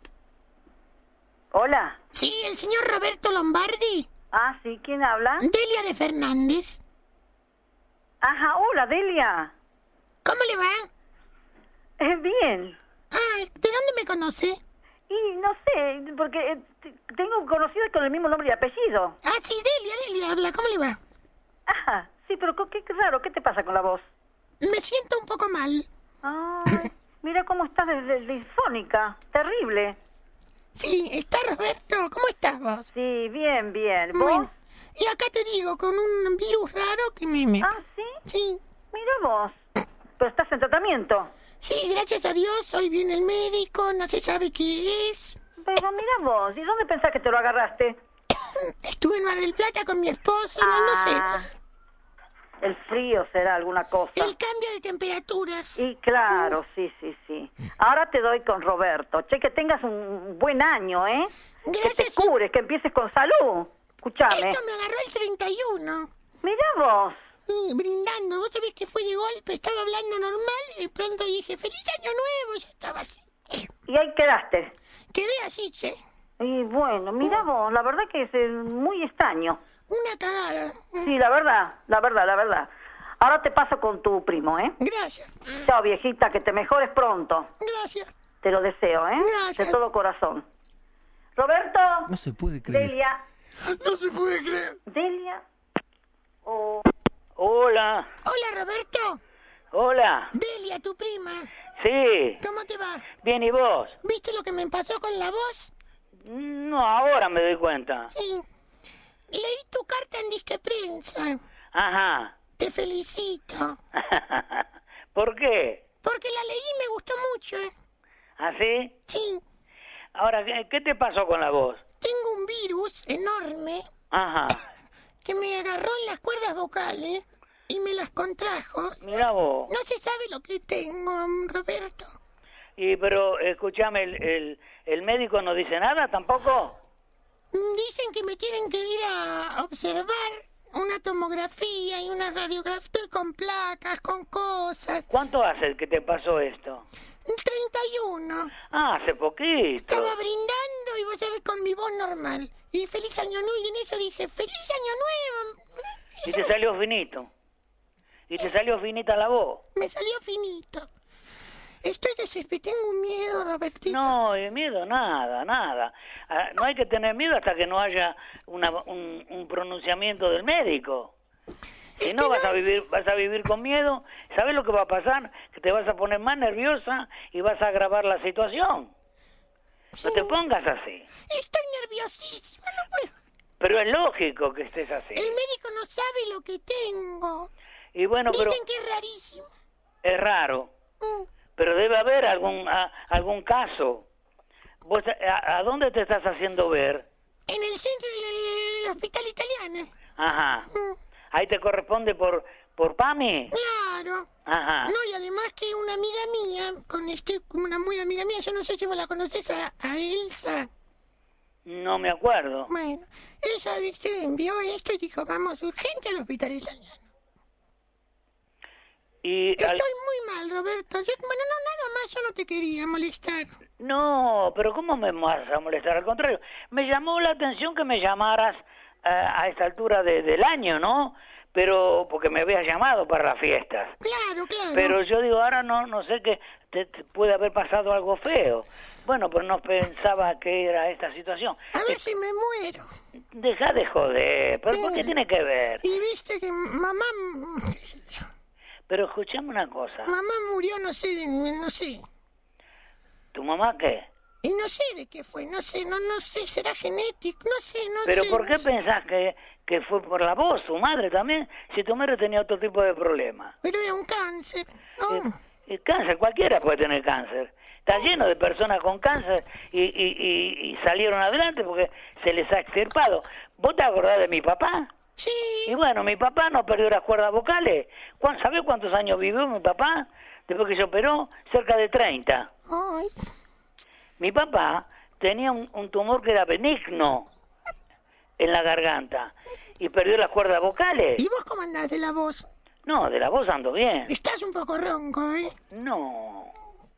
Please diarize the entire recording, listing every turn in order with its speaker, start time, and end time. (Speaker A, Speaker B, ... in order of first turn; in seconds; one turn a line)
Speaker A: 1.5-2.0
Speaker B: 2.1-4.1
Speaker A: 4.3-5.5
Speaker B: 5.4-6.8
Speaker A: 8.2-9.5
Speaker B: 10.2-10.9
Speaker A: 12.0-12.8
Speaker B: 13.1-14.6
Speaker A: 15.1-19.2
Speaker B: 19.2-21.0
Speaker A: 21.7-24.0
Speaker B: 24.6-25.9
Speaker A: 26.2-30.0
Speaker B: 30.8-32.9
Speaker A: 32.9-34.5
Speaker B: 34.1-37.7
Speaker A: 37.6-38.2
Speaker B: 38.3-38.6
Speaker A: 38.9-39.5
Speaker A: 40.2-41.3
Speaker B: 41.6-45.4
Speaker A: 45.6-48.0
Speaker B: 48.5-51.5
Speaker A: 50.6-51.5
Speaker A: 52.6-54.3
Speaker B: 54.1-56.6
Speaker A: 55.8-64.6
Speaker B: 61.6-62.3
Speaker B: 64.3-66.1
Speaker A: 66.4-67.2
Speaker B: 67.5-73.7
Speaker A: 73.9-74.7
Speaker B: 75.1-76.0
Speaker A: 76.4-79.6
Speaker B: 77.2-77.5
Speaker B: 79.9-81.1
Speaker A: 81.0-82.7
Speaker A: 83.2-84.8
Speaker B: 84.8-85.6
Speaker A: 85.6-87.5
Speaker B: 87.6-88.1
Speaker A: 88.4-90.4
Speaker B: 89.2-89.8
Speaker A: 91.3-93.2
Speaker B: 93.7-94.7
Speaker A: 94.9-95.4
Speaker A: 96.4-96.9
Speaker C: 97.3-98.1
Speaker B: 98.2-99.2
Speaker C: 99.7-100.3
Speaker B: 100.3-101.5
Speaker C: 101.8-102.4
Speaker B: 102.4-103.1
Speaker C: 103.2-104.0
Speaker B: 104.0-105.7
Speaker C: 106.2-108.1
Speaker B: 108.1-108.4
Speaker B: 109.3-111.4
Speaker C: 111.7-112.3
Speaker B: 112.6-113.8
Speaker C: 113.9-115.8
Speaker B: 116.0-117.7
Speaker C: 118.4-119.0
Speaker B: 119.1-119.4
Speaker C: 120.1-121.8
Speaker B: 122.0-123.8
Speaker C: 124.1-124.6
Speaker B: 125.2-129.1
Speaker C: 129.0-129.7
Speaker B: 129.7-132.2
Speaker C: 132.8-136.8
Speaker B: 137.5-145.1
Speaker C: 145.1-146.8
Speaker B: 147.2-148.5
Speaker C: 148.7-150.2
Speaker B: 149.8-156.5
Speaker C: 156.2-157.3
Speaker C: 158.3-159.6
Speaker B: 159.7-160.9
Speaker B: 161.8-164.1
Speaker C: 163.9-171.1
Speaker B: 172.0-172.6
Speaker C: 172.0-178.9
Speaker B: 179.9-180.4
Speaker C: 180.0-181.1
Speaker B: 181.3-183.1
Speaker C: 183.6-185.4
Speaker B: 185.1-187.5
Speaker C: 187.9-188.6
Speaker B: 188.3-189.5
Speaker C: 190.0-190.7
Speaker C: 191.6-194.1
Speaker C: 194.8-197.1
Speaker B: 197.5-199.9
Speaker C: 200.2-200.7
Speaker B: 200.7-201.0
Speaker C: 201.3-203.5
Speaker B: 203.5-204.3
Speaker C: 204.4-204.9
Speaker B: 204.8-210.7
Speaker C: 211.7-212.7
Speaker B: 212.7-217.0
Speaker C: 219.2-219.8
Speaker B: 219.6-223.5
Speaker C: 223.8-233.9
Speaker B: 234.0-235.0
Speaker C: 234.7-242.0
Speaker B: 241.7-242.9
Speaker C: 243.3-245.8
Speaker B: 244.7-245.1
Speaker B: 245.8-248.3
Speaker C: 248.9-250.1
Speaker B: 250.1-252.0
Speaker C: 253.3-254.1
Speaker B: 254.4-258.6
Speaker C: 258.0-263.5
Speaker B: 263.6-265.3
Speaker C: 265.1-274.9
Speaker B: 275.2-275.8
Speaker C: 275.7-282.5
Speaker B: 282.7-283.1
Speaker C: 284.2-287.3
Speaker C: 288.4-291.2
Speaker B: 291.2-292.4
Speaker C: 292.9-294.1
Speaker B: 294.1-295.5
Speaker C: 295.7-296.5